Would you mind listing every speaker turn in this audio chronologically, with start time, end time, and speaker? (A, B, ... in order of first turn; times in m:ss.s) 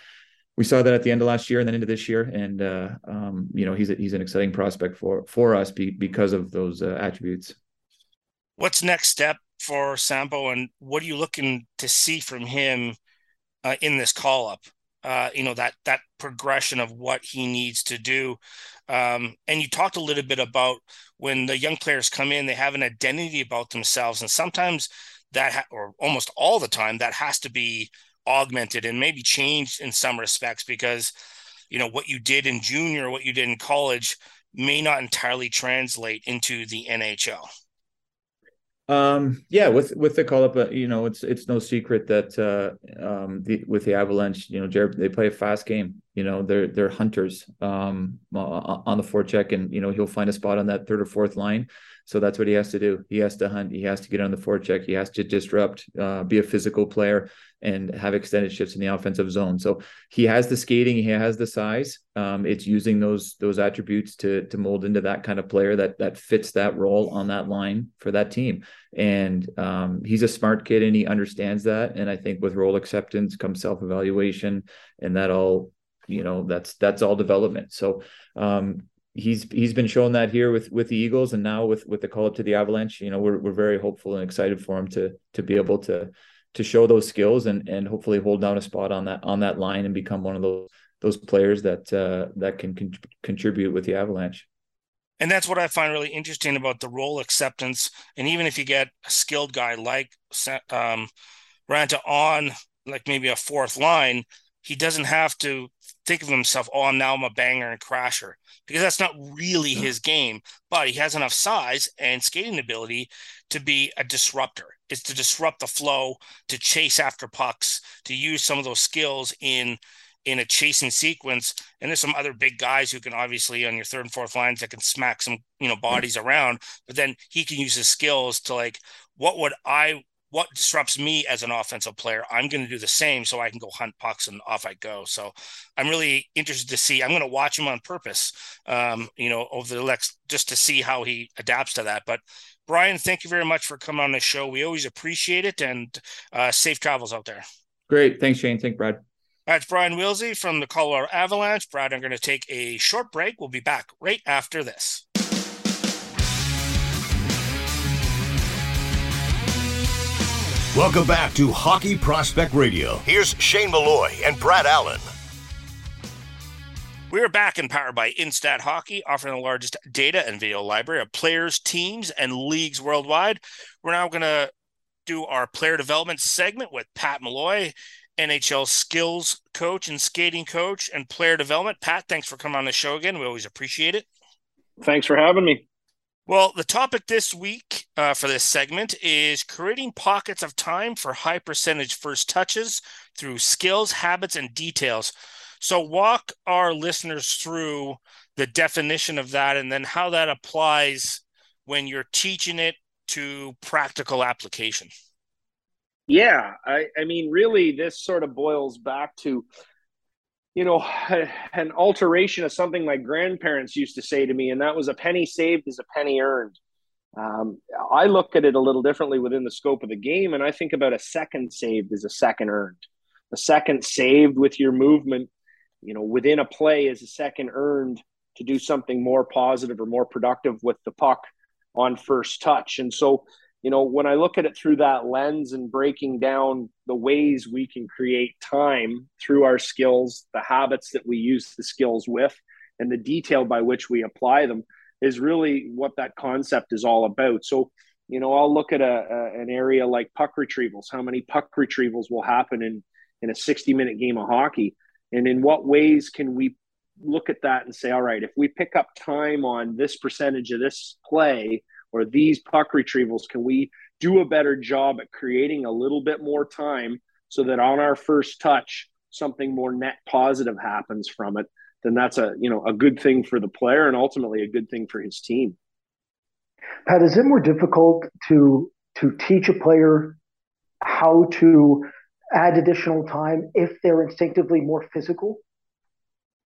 0:00.6-0:07.6 A
0:08.6-0:13.0 B
0:13.6-0:31.1 B
0:31.7-0:37.5 B
0:38.9-1:34.5 A
1:35.2-1:41.1 B
1:41.7-2:27.4 B
2:27.9-2:29.0 A
2:29.5-2:35.0 B
2:40.7-2:45.0 C
2:47.1-2:54.5 B
2:55.0-3:04.0 B
3:04.8-3:05.6 D
3:06.3-3:24.9 B
3:26.1-3:29.4 D
3:30.6-3:36.6 D
3:37.2-3:42.8 D
3:43.3-3:45.3 D
3:45.8-3:51.2 D
3:51.7-4:35.6 D
4:36.8-4:40.2 E
4:40.8-4:45.4 E